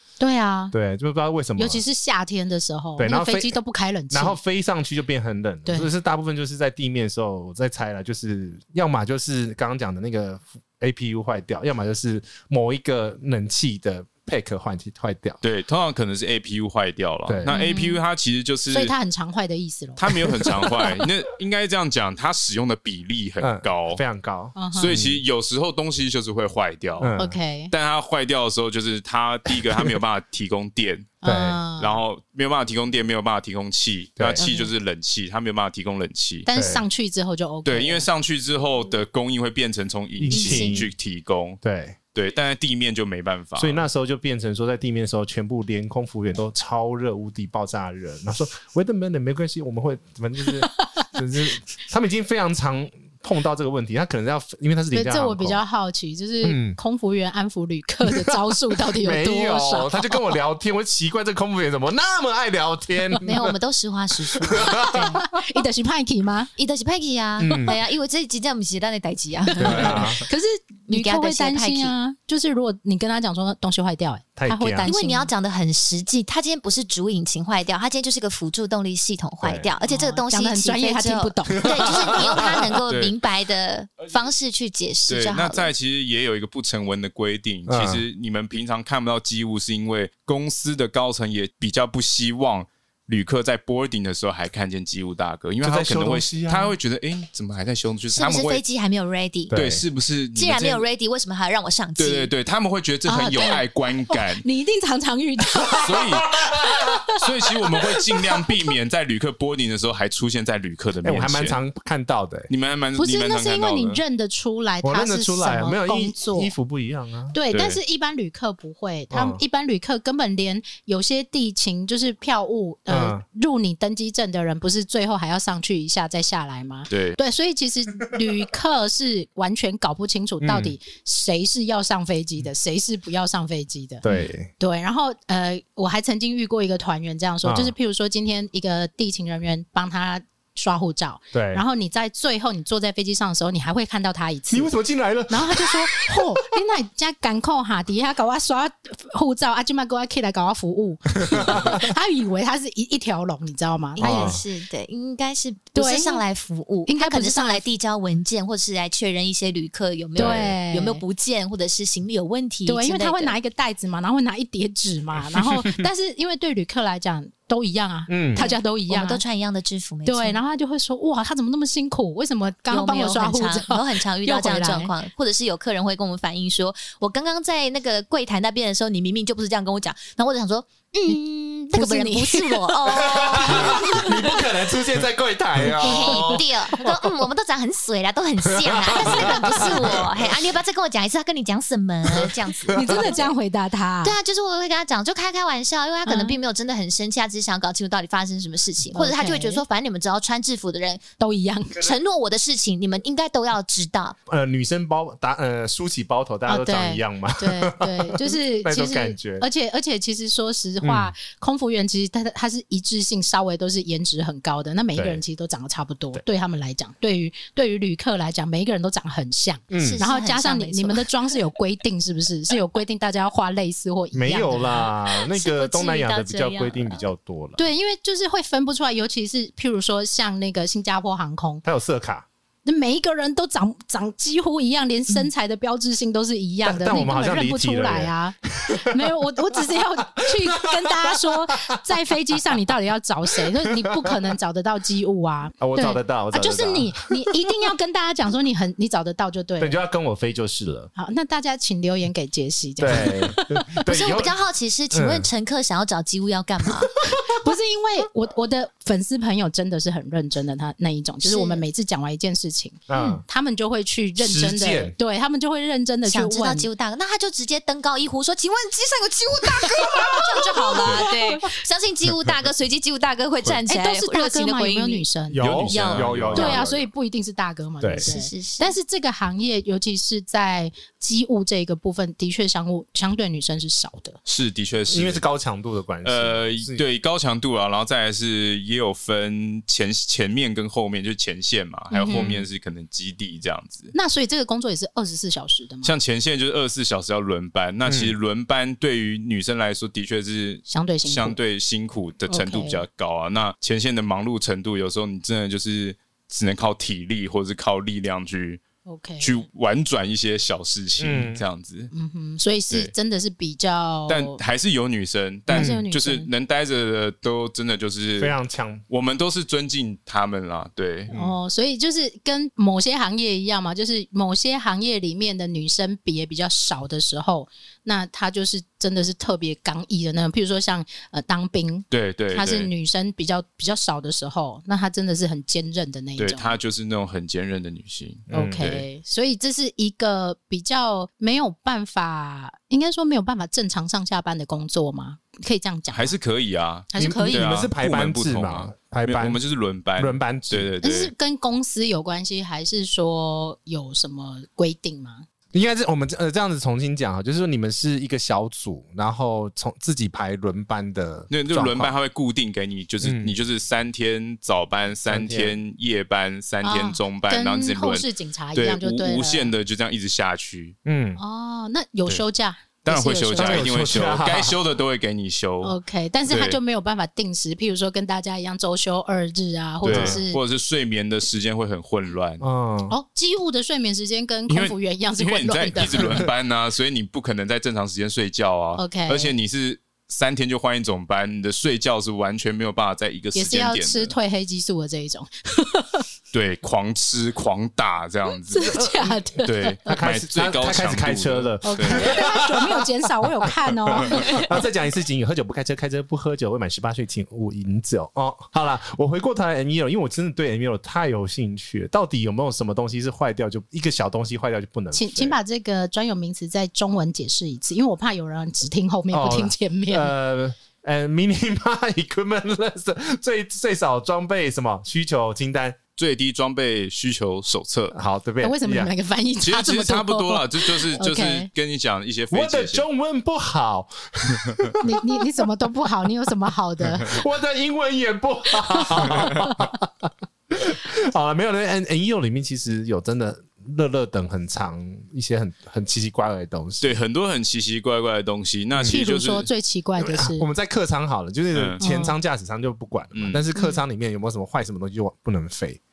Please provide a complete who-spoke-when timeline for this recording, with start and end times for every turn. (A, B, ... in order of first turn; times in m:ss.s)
0:00.2-0:00.7 A
0:00.7-0:01.8 B
0:01.6-0:04.4 A
0:03.0-0:03.6 B
0:04.1-0:15.4 B
0:15.4-0:18.9 C
0:17.2-0:17.5 B
0:17.5-0:18.0 A
0:18.7-0:21.0 A
0:20.0-0:24.0 C
0:23.4-0:25.2 B
0:24.6-0:25.0 A
0:24.7-0:27.1 C
0:27.0-0:27.4 B
0:27.2-0:27.7 A
0:27.7-0:31.1 C
0:29.5-0:30.0 B
0:31.2-0:32.0 A
0:31.2-0:31.6 B
0:31.8-0:36.5 C
0:34.2-0:34.4 B
0:34.4-0:34.7 A
0:36.4-0:38.1 A
0:36.5-0:36.8 B
0:37.6-0:41.6 C
0:40.2-0:40.9 B
0:40.3-0:40.8 D
0:41.6-0:42.0 B
0:42.1-0:43.8 C
0:43.6-0:55.6 B
0:54.9-1:00.3 A
0:56.4-0:56.8 B
0:58.1-1:03.5 B
1:03.2-1:05.2 D
1:04.4-1:05.2 B
1:04.6-1:06.5 A
1:06.6-1:10.2 D
1:07.4-1:07.8 B
1:09.5-1:15.3 A
1:09.6-1:10.2 B
1:10.9-1:11.9 D
1:14.4-1:14.9 B
1:14.8-1:25.7 D
1:19.4-1:19.7 B
1:19.9-1:22.0 A
1:21.6-1:22.6 B
1:25.1-1:38.6 C
1:27.7-1:28.0 B
1:35.6-1:36.7 B
1:38.1-1:39.5 D
1:39.5-1:39.8 B
1:39.5-1:40.8 C
1:40.3-1:42.3 D
1:42.0-1:44.4 C
1:43.0-1:47.0 A
1:45.8-1:46.3 C
1:46.3-1:46.9 B
1:47.2-1:51.6 C
1:51.0-1:52.5 B
1:52.5-1:54.0 C
1:53.0-1:56.5 A
1:54.8-1:57.4 B
1:57.3-2:14.0 A
1:57.5-1:57.8 C
1:59.1-1:59.4 B
2:02.9-2:03.2 B
2:06.9-2:07.2 C
2:10.4-2:10.8 B
2:14.0-2:14.5 B
2:14.6-2:24.7 A
2:17.4-2:17.7 B
2:21.3-2:21.6 B
2:24.5-2:26.3 B
2:25.3-2:34.4 A
2:31.2-2:31.8 B
2:34.0-2:43.3 D
2:34.0-2:34.4 B
2:35.7-2:36.2 A
2:36.9-2:37.6 A
2:40.2-2:40.5 B
2:40.2-2:41.0 A
2:42.7-2:49.2 A
2:45.3-2:45.8 B
2:48.1-2:48.5 B
2:48.3-2:50.4 D
2:50.0-2:54.9 A
2:52.7-3:04.2 D
3:01.7-3:04.4 A
3:02.9-3:06.8 B
3:05.8-3:06.4 A
3:05.8-3:13.2 D
3:08.5-3:10.3 B
3:09.0-3:09.9 A
3:12.2-3:13.2 B
3:12.7-3:14.2 A
3:14.0-3:21.0 D
3:16.0-3:16.4 A
3:18.9-3:19.6 A
3:21.2-3:21.9 A
3:21.8-3:24.2 D
3:24.3-3:29.4 B
3:26.5-3:44.9 A
3:30.8-3:31.1 B
3:34.9-3:35.2 B
3:39.7-3:40.0 B
3:39.7-3:41.1 D
3:44.1-3:47.6 B
3:45.2-3:47.1 D
3:47.6-3:51.6 A
3:51.6-3:52.2 B
3:52.6-4:09.8 A
3:56.6-3:59.0 B
4:00.3-4:02.0 B
4:05.6-4:06.9 B
4:09.6-4:10.9 B
4:11.0-4:13.8 A
4:12.8-4:14.3 B
4:13.8-4:17.0 D
4:14.9-4:15.3 B
4:17.2-4:26.7 A
4:21.2-4:21.6 D
4:22.9-4:23.2 B
4:24.2-4:24.9 B
4:26.1-4:35.0 D
4:29.8-4:31.5 A
4:30.8-4:31.1 B
4:32.1-4:32.4 B
4:33.7-4:35.4 A
4:35.3-4:36.8 B
4:35.4-4:36.8 C
4:35.6-4:36.6 D
4:36.3-4:44.2 A
4:37.8-4:38.1 B
4:38.0-4:38.7 D
4:44.2-4:45.2 C
4:44.9-4:46.8 B
4:46.0-4:53.9 C
4:51.9-4:52.4 A
4:52.1-4:52.4 B
4:53.9-4:55.9 A
4:55.8-5:08.6 C
4:57.8-4:58.1 B
5:00.7-5:01.4 A
5:02.3-5:02.8 A
5:08.8-5:09.4 A
5:09.2-5:11.9 C
5:11.0-5:11.4 B
5:11.9-5:14.4 A
5:14.1-5:18.4 C
5:15.5-5:16.3 A
5:15.5-5:15.8 B
5:18.2-5:18.8 B
5:18.9-5:21.1 C
5:21.1-5:36.6 A
5:21.1-5:21.4 B
5:31.9-5:32.7 C
5:36.2-5:38.8 C
5:38.3-5:38.7 B
5:38.3-5:46.2 A
5:45.9-5:51.1 C
5:46.9-5:47.6 A
5:46.9-5:49.4 B
5:50.0-5:50.7 B
5:50.8-5:55.2 A
5:55.5-6:02.0 B
6:01.3-6:10.7 C
6:03.0-6:03.4 B
6:05.1-6:05.6 B
6:06.6-6:09.5 A
6:10.8-6:11.2 B
6:11.2-6:13.8 A
6:12.8-6:16.6 C
6:13.4-6:14.5 B
6:15.6-6:20.4 A
6:19.8-6:22.4 C
6:19.9-6:20.2 B
6:22.4-6:22.9 B
6:22.9-6:26.2 A
6:24.5-6:34.1 C
6:25.9-6:26.2 B
6:28.8-6:29.3 A
6:33.3-6:36.0 A
6:36.3-6:38.8 C
6:38.5-6:40.0 A
6:38.6-6:43.3 B
6:39.4-6:42.2 C
6:41.6-6:44.7 A
6:43.9-6:55.4 B
6:54.9-7:00.1 A
6:59.1-7:05.8 B
7:06.0-7:08.0 C
7:07.9-7:08.9 B
7:08.4-7:11.5 A
7:09.4-7:12.8 C
7:12.3-7:14.9 B
7:14.8-7:17.2 A
7:17.0-7:27.0 B
7:18.8-7:19.5 A
7:26.8-7:29.5 C
7:28.7-7:29.0 B
7:28.9-7:30.5 A
7:30.0-7:35.8 B
7:31.5-7:31.8 C
7:31.8-7:32.2 A
7:33.1-7:33.4 C
7:33.5-7:33.8 A